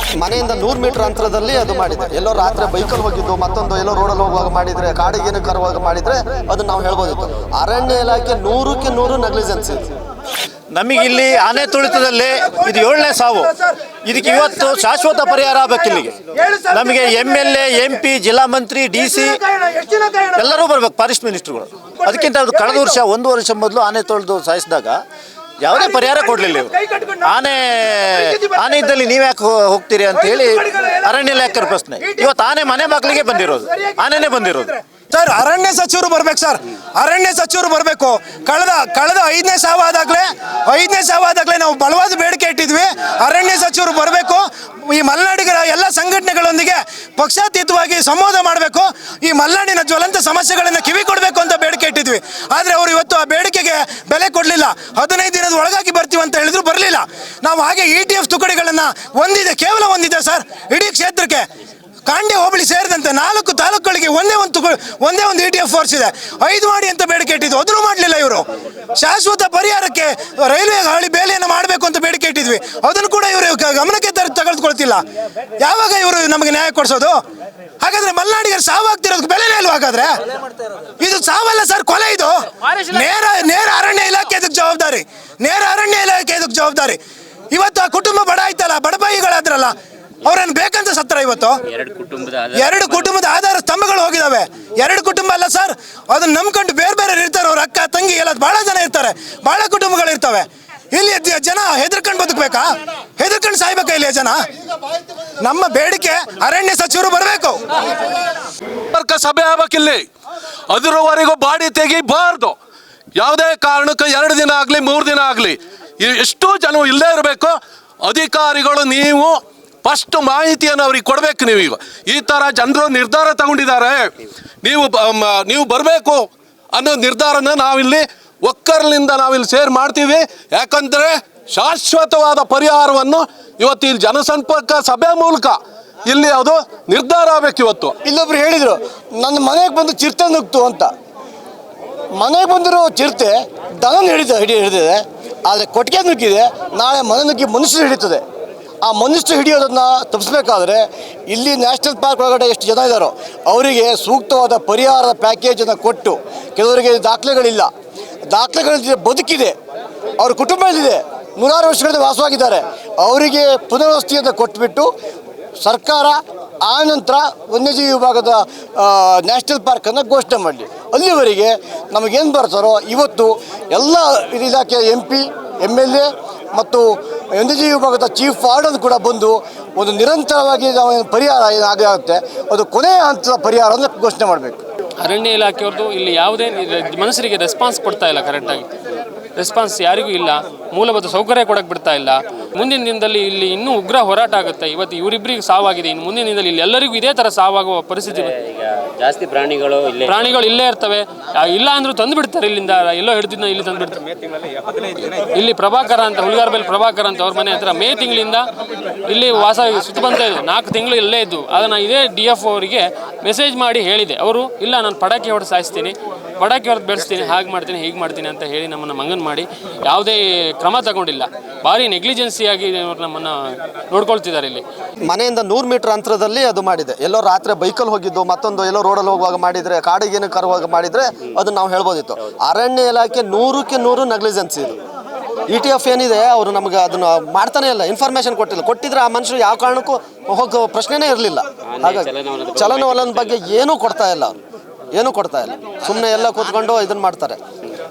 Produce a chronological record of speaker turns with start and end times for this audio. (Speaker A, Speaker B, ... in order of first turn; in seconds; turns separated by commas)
Speaker A: 0.2-9.9, Speaker B: 10.7-19.4, Speaker B: 20.2-25.0, Speaker B: 25.6-34.8, Speaker C: 35.1-61.5, Speaker C: 62.0-68.4, Speaker C: 69.0-75.0, Speaker C: 75.6-77.2, Speaker C: 77.8-80.1, Speaker C: 81.0-87.0, Speaker C: 87.5-89.7, Speaker C: 90.2-91.6, Speaker D: 91.7-93.1, Speaker C: 92.5-104.4, Speaker C: 105.4-107.6, Speaker E: 108.9-110.0, Speaker E: 110.7-112.5, Speaker E: 113.2-119.3, Speaker E: 119.8-124.1, Speaker E: 124.6-137.9, Speaker F: 138.0-140.9, Speaker F: 142.2-148.2, Speaker F: 148.8-157.7, Speaker F: 158.3-159.5, Speaker F: 160.2-164.9, Speaker F: 165.6-184.6, Speaker G: 185.0-188.7, Speaker G: 189.3-198.3, Speaker D: 198.1-200.2, Speaker G: 200.0-204.0, Speaker G: 205.0-208.5, Speaker G: 209.0-223.4, Speaker G: 223.9-224.6, Speaker A: 225.1-234.8, Speaker A: 235.5-244.3, Speaker D: 241.8-243.2, Speaker A: 244.9-247.4